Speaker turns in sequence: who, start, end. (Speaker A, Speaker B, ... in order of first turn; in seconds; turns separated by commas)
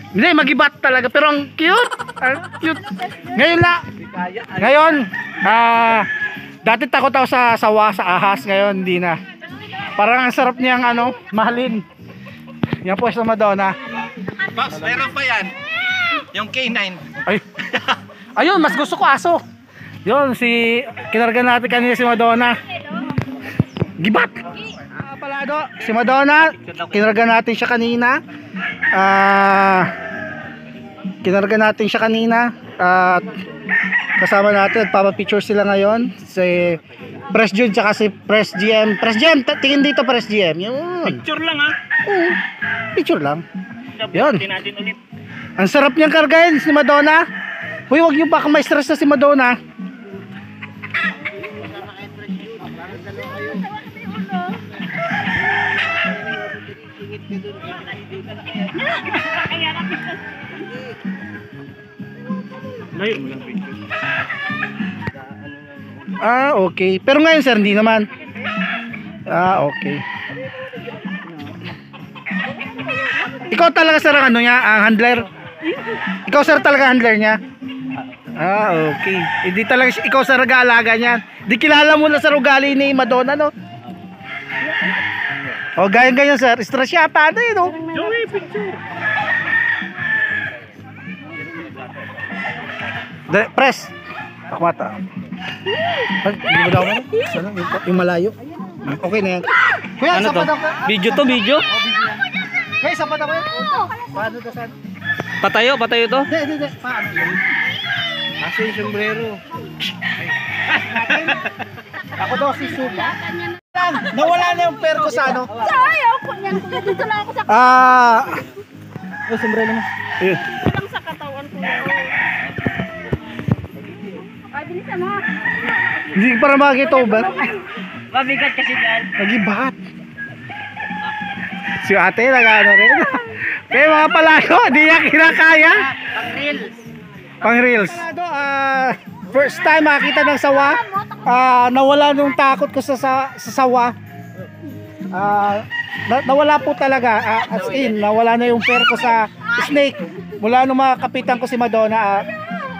Speaker A: 0.1-3.8, Speaker B: 4.0-5.0, Speaker A: 4.5-6.1, Speaker A: 6.6-9.2, Speaker A: 9.9-11.8, Speaker A: 12.8-13.8, Speaker B: 14.5-15.5, Speaker B: 16.3-17.0, Speaker A: 18.4-19.4, Speaker A: 20.0-22.6, Speaker A: 24.0-28.2, Speaker B: 26.5-27.0, Speaker A: 28.9-29.9, Speaker A: 31.2-33.4, Speaker A: 34.2-41.2, Speaker C: 41.0-41.8, Speaker A: 42.0-42.4, Speaker A: 42.9-43.4, Speaker C: 43.9-45.0, Speaker A: 44.1-44.5, Speaker A: 45.6-47.2, Speaker A: 47.9-49.6, Speaker D: 53.0-54.4, Speaker B: 57.3-57.6, Speaker D: 59.3-60.1, Speaker C: 62.9-63.8, Speaker A: 66.2-68.1, Speaker A: 69.3-70.0, Speaker A: 73.4-75.3, Speaker A: 76.2-77.4, Speaker A: 78.3-83.5, Speaker A: 85.8-87.8, Speaker C: 87.9-88.8, Speaker C: 91.3-92.7, Speaker A: 93.3-93.9, Speaker A: 94.5-95.0, Speaker A: 96.1-102.2, Speaker B: 100.1-101.7, Speaker A: 102.8-104.8, Speaker B: 105.4-106.3, Speaker A: 106.3-107.4, Speaker A: 108.4-109.3, Speaker B: 108.7-109.2, Speaker B: 110.7-111.4, Speaker A: 110.8-111.3, Speaker A: 112.2-113.1, Speaker D: 112.5-113.6, Speaker A: 113.7-115.5, Speaker B: 114.9-115.9, Speaker D: 115.6-117.4, Speaker A: 117.5-118.4, Speaker B: 119.3-119.8, Speaker A: 120.2-120.5, Speaker D: 120.6-122.2, Speaker C: 120.8-121.8, Speaker D: 124.4-125.2, Speaker A: 126.1-127.5, Speaker B: 128.1-129.1, Speaker A: 129.2-129.8, Speaker A: 131.7-135.9, Speaker B: 136.2-136.7, Speaker A: 137.4-143.9, Speaker A: 145.1-152.2, Speaker B: 147.6-147.9